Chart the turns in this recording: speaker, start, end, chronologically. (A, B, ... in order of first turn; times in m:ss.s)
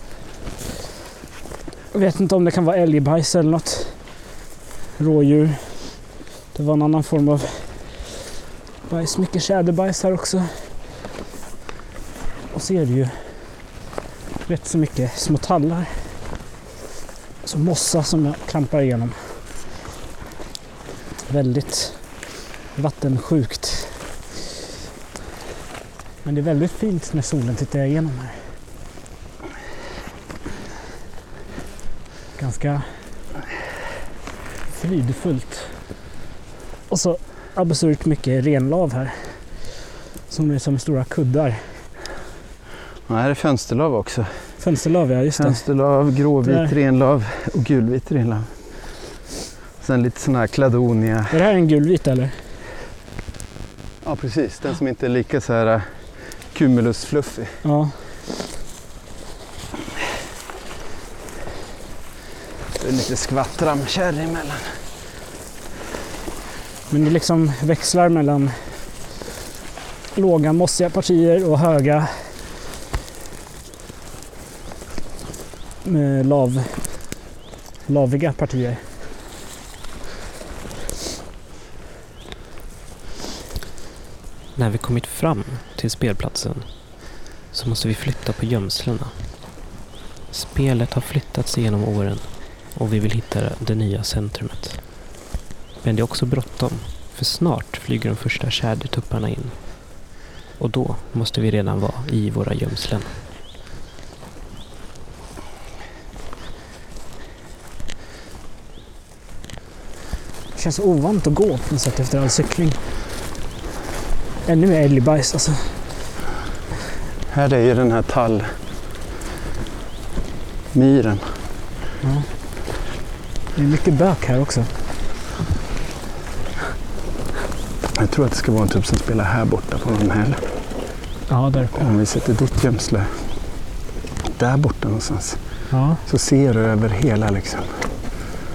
0:01.9-0:04.2 A
0:05.0-0:08.0 A
0:08.9-0:10.8 A
0:12.5-0:13.7 A
0:14.4-0:16.2 A
0:17.4-0:19.4 A
0:21.3-0:24.1 A
0:26.2-0:28.5 A
0:32.4-0:33.1 A
0:34.7-0:35.8 A
0:36.9-0:39.6 A
0:40.3-0:41.9 A
0:43.0-0:44.6 B
0:44.6-0:45.7 A
0:45.3-0:49.0 B
0:46.4-0:46.7 A
0:49.8-0:51.4 B
0:51.3-0:52.4 A
0:54.0-0:57.6 B
0:57.6-0:58.0 A
1:02.8-1:04.8 B
1:06.9-1:08.8 A
1:10.1-1:12.4 A
1:15.8-1:17.2 A
1:17.8-1:18.9 A
1:24.5-1:29.4 C
1:30.3-1:35.0 C
1:35.8-1:40.0 C
1:40.6-1:43.2 C
1:50.5-1:52.8 A
1:54.4-1:55.9 A
1:57.3-1:58.6 B
2:00.7-2:01.5 B
2:02.0-2:02.3 A
2:03.5-2:04.7 A
2:08.0-2:10.4 B
2:11.3-2:11.9 A
2:11.7-2:13.3 B
2:14.3-2:15.4 B
2:15.7-2:16.0 A
2:16.0-2:17.8 B